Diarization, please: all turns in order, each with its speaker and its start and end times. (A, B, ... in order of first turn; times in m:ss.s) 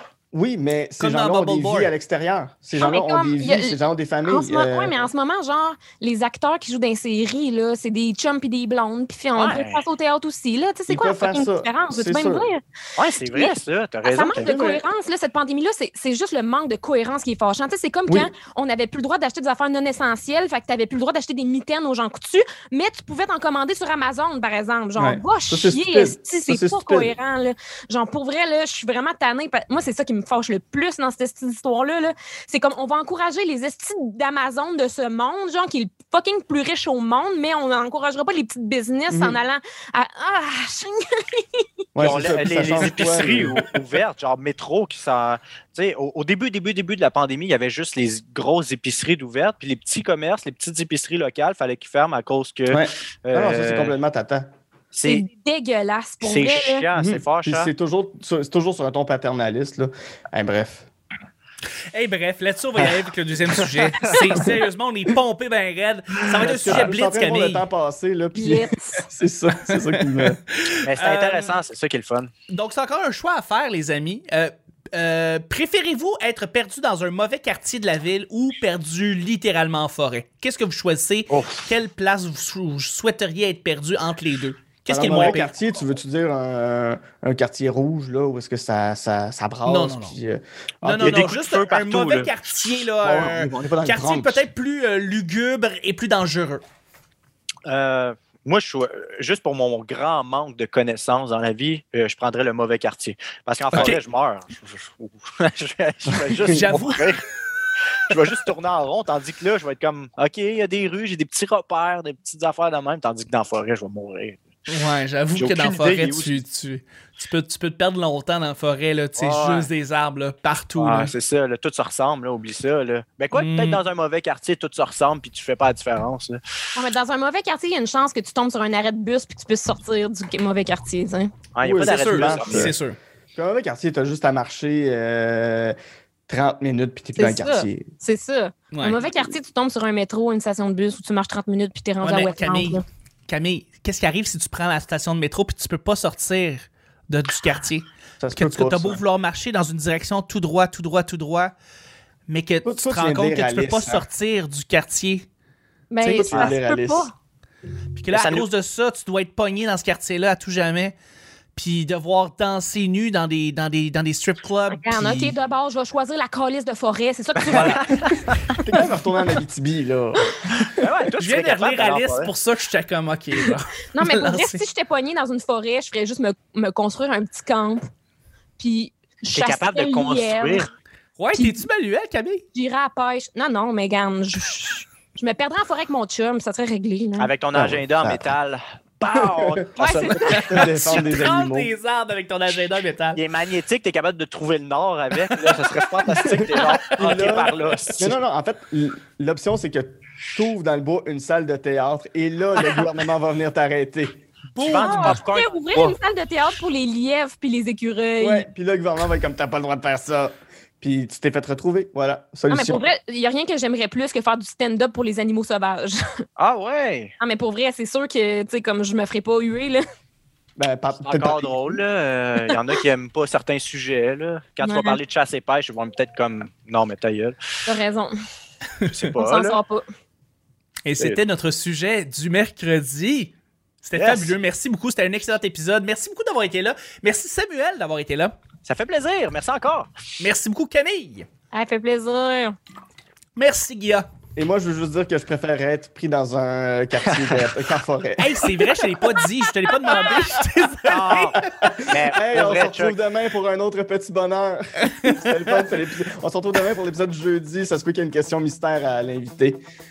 0:00.3-0:05.0 A
0:01.0-0:01.9 B
0:02.8-0:12.6 C
0:09.4-0:09.8 D
0:10.9-0:12.5 A
0:13.0-0:14.5 D
0:14.0-0:41.6 C
0:14.3-0:14.8 A
0:25.0-0:27.1 A
0:39.1-0:39.4 A
0:42.0-0:43.6 A
0:42.0-0:54.0 D
0:52.7-0:54.4 A
0:54.9-0:55.2 D
0:55.0-0:56.8 C
0:56.2-0:57.7 D
0:57.0-1:00.9 A
1:01.9-1:07.7 B
1:06.4-1:10.4 A
1:08.4-1:09.1 C
1:09.7-1:11.5 B
1:10.8-1:12.3 D
1:12.5-1:25.5 B
1:21.3-1:21.8 D
1:24.9-1:31.2 A
1:29.6-1:30.2 B
1:30.8-1:36.6 B
1:31.0-1:32.4 D
1:33.0-1:34.4 A
1:37.7-1:47.2 D
1:46.5-1:47.0 B
1:48.0-1:54.5 D
1:54.7-2:01.1 B
1:55.4-1:56.4 D
1:59.2-1:59.7 D
2:00.8-2:06.4 D
2:03.4-2:03.8 B
2:06.8-2:11.3 C
2:11.6-2:12.7 D
2:11.6-2:12.8 A
2:11.9-2:13.0 B
2:13.4-2:15.8 A
2:16.3-2:17.9 A
2:17.2-2:22.8 C
2:18.7-2:19.1 B
2:22.0-2:31.5 B
2:28.2-2:29.0 A
2:32.3-2:35.3 B
2:32.6-2:34.0 A
2:35.9-2:37.1 C
2:36.1-2:37.1 A
2:38.0-2:41.0 B
2:38.1-2:38.4 D
2:41.6-2:45.4 B
2:44.7-2:47.9 C
2:47.5-2:47.8 A
2:47.6-2:48.2 D
2:48.6-2:50.3 A
2:50.7-2:52.3 D
2:51.2-2:54.7 B
2:53.9-2:57.9 C
2:58.6-3:00.7 C
2:59.3-3:00.7 D
3:01.2-3:02.4 B
3:01.3-3:01.6 C
3:02.5-3:07.3 C
3:07.2-3:11.0 D
3:07.5-3:08.2 A
3:09.1-3:11.7 A
3:10.0-3:10.3 C
3:10.5-3:13.2 B
3:13.2-3:18.1 D
3:15.4-3:16.4 B
3:16.4-3:24.2 A
3:24.6-3:26.0 D
3:24.7-3:28.5 C
3:28.2-3:32.8 A
3:32.5-3:36.0 C
3:36.4-3:37.1 D
3:37.2-3:39.8 C
3:40.6-3:41.8 A
3:41.0-3:47.4 D
3:44.6-3:45.0 C
3:47.7-3:48.1 C
3:48.9-3:49.6 D
3:49.2-3:49.8 C
3:50.8-3:58.4 B
3:54.0-3:54.3 D
3:58.6-3:59.9 D
4:00.2-4:01.3 B
4:01.5-4:02.6 C
4:03.4-4:04.1 B
4:04.4-4:08.7 A
4:08.2-4:11.2 B
4:10.9-4:13.0 D
4:11.2-4:19.6 A